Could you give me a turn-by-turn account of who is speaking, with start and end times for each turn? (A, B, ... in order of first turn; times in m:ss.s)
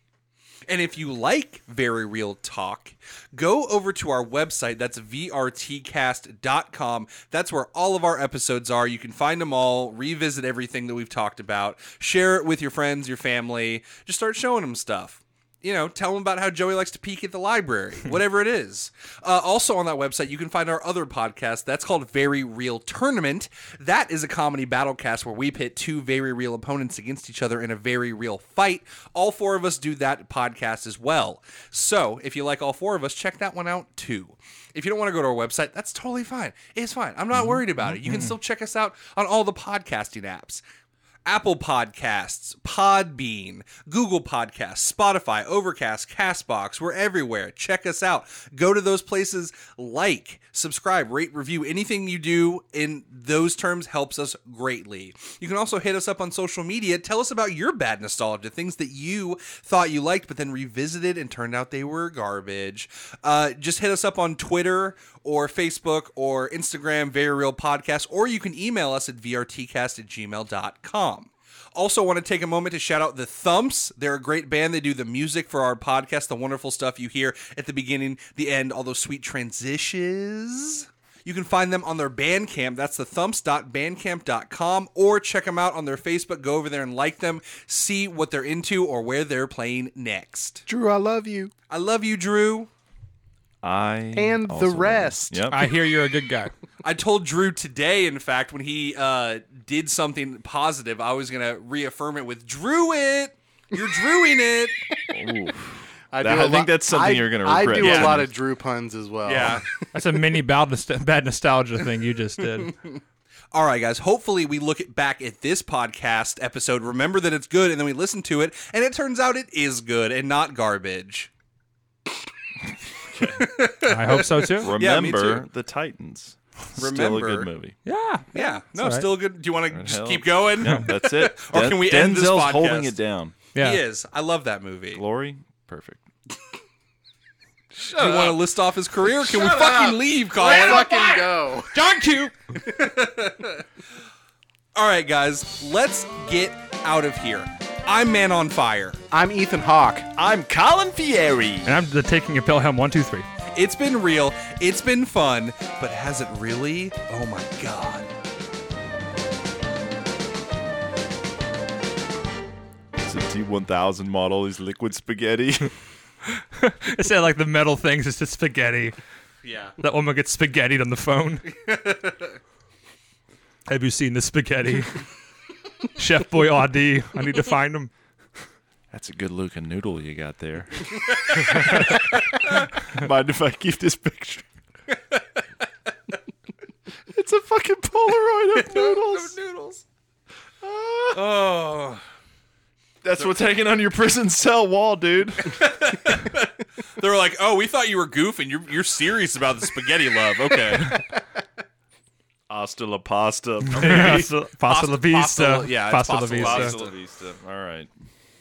0:00.7-0:40.6 A
0:37.8-0:38.4 B
0:41.3-1:30.6 A
1:30.7-1:31.5 C
1:31.7-1:32.7 A
1:33.6-1:35.6 D
1:34.2-1:35.4 C
1:35.5-1:36.5 B
1:36.8-1:44.8 A
1:45.1-1:48.3 D
1:46.1-1:49.9 C
1:47.8-1:48.2 A
1:49.2-1:49.6 A
1:49.9-1:52.7 B
1:52.6-1:53.0 A
1:53.5-2:01.3 A
2:03.0-2:03.5 D
2:03.4-2:05.5 A
2:03.9-2:04.7 B
2:04.6-2:07.8 D
2:06.8-2:07.5 A
2:07.9-2:09.1 B
2:08.3-2:13.0 A
2:09.7-2:13.4 D
2:13.6-2:13.8 B
2:13.6-2:15.0 A
2:15.0-2:16.1 D
2:17.8-2:21.2 A
2:18.0-2:18.3 C
2:19.2-2:21.8 C
2:20.5-2:21.0 D
2:21.7-2:22.3 B
2:22.6-2:23.7 A
2:24.8-2:29.0 A
2:29.1-2:30.1 C
2:30.2-2:31.7 D
2:31.6-2:33.3 B
2:33.5-2:38.1 A
2:43.0-2:45.7 D
2:46.3-2:49.0 B
2:49.4-2:49.8 A
2:49.8-2:51.5 B
2:51.5-2:52.4 A
2:53.7-2:55.1 B
2:56.0-2:57.9 B
2:58.9-3:04.5 D
3:01.1-3:02.4 A
3:04.9-3:05.2 A
3:07.1-3:09.4 D
3:08.6-3:09.8 A
3:10.6-3:11.3 D
3:11.1-3:12.0 A
3:13.0-3:15.7 D
3:15.4-3:21.0 A
3:20.5-3:20.9 D
3:22.5-3:24.3 D
3:23.7-3:26.8 B
3:23.8-3:26.9 A
3:26.4-3:27.9 D